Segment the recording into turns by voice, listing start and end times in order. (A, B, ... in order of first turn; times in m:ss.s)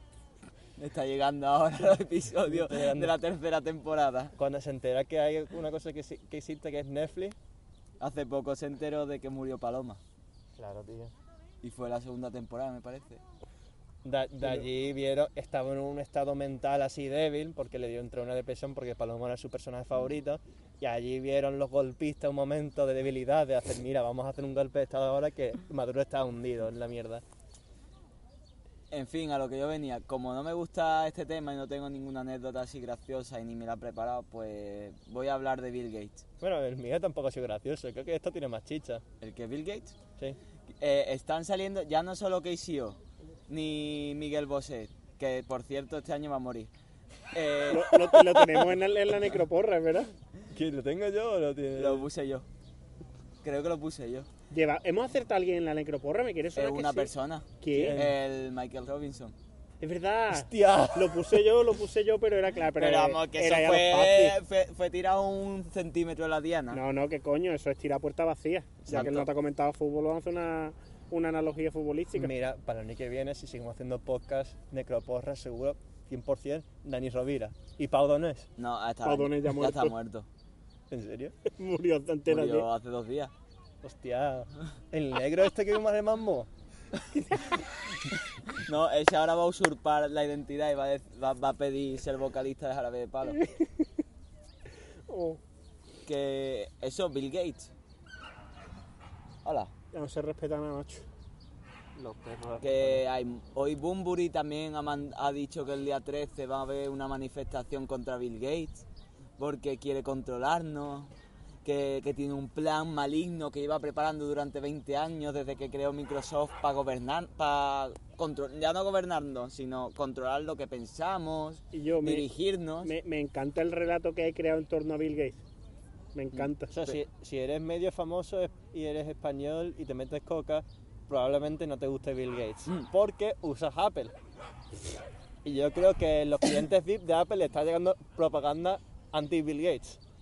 0:00.8-0:04.3 A
0:02.4-0:03.1 B
0:04.4-0:07.4 B
0:08.0-0:10.0 A
0:10.6-0:11.1 B
0:11.6-0:13.2 A
0:14.0-0:27.2 B
0:28.9-0:36.2 A
0:36.4-0:39.0 B
0:39.2-0:40.0 A
0:40.8-0:46.7 A
0:47.3-0:48.0 A
0:47.7-0:50.1 C
0:50.5-0:52.1 B
0:51.8-0:52.5 A
0:53.4-0:54.3 A
0:54.5-0:58.0 C
0:56.6-0:59.4 A
0:57.7-0:58.2 B
0:59.8-1:04.3 C
1:00.3-1:01.4 B
1:02.8-1:06.8 A
1:06.7-1:12.3 C
1:08.8-1:09.2 B
1:08.9-1:09.2 A
1:12.2-1:18.5 B
1:18.6-1:20.2 A
1:19.0-1:19.9 C
1:20.9-1:21.4 B
1:21.5-1:22.7 C
1:22.3-1:23.3 A
1:23.8-1:26.5 B
1:28.5-1:33.4 A
1:35.1-1:35.4 C
1:36.0-1:37.7 A
1:39.4-1:39.7 A
1:39.9-1:41.0 C
1:42.0-1:43.0 B
1:42.6-1:48.8 A
1:49.4-1:51.1 A
1:51.6-2:02.9 A
2:01.7-2:02.2 C
2:02.8-2:05.4 C
2:06.1-2:06.7 C
2:06.7-2:14.2 B
2:15.4-2:20.0 B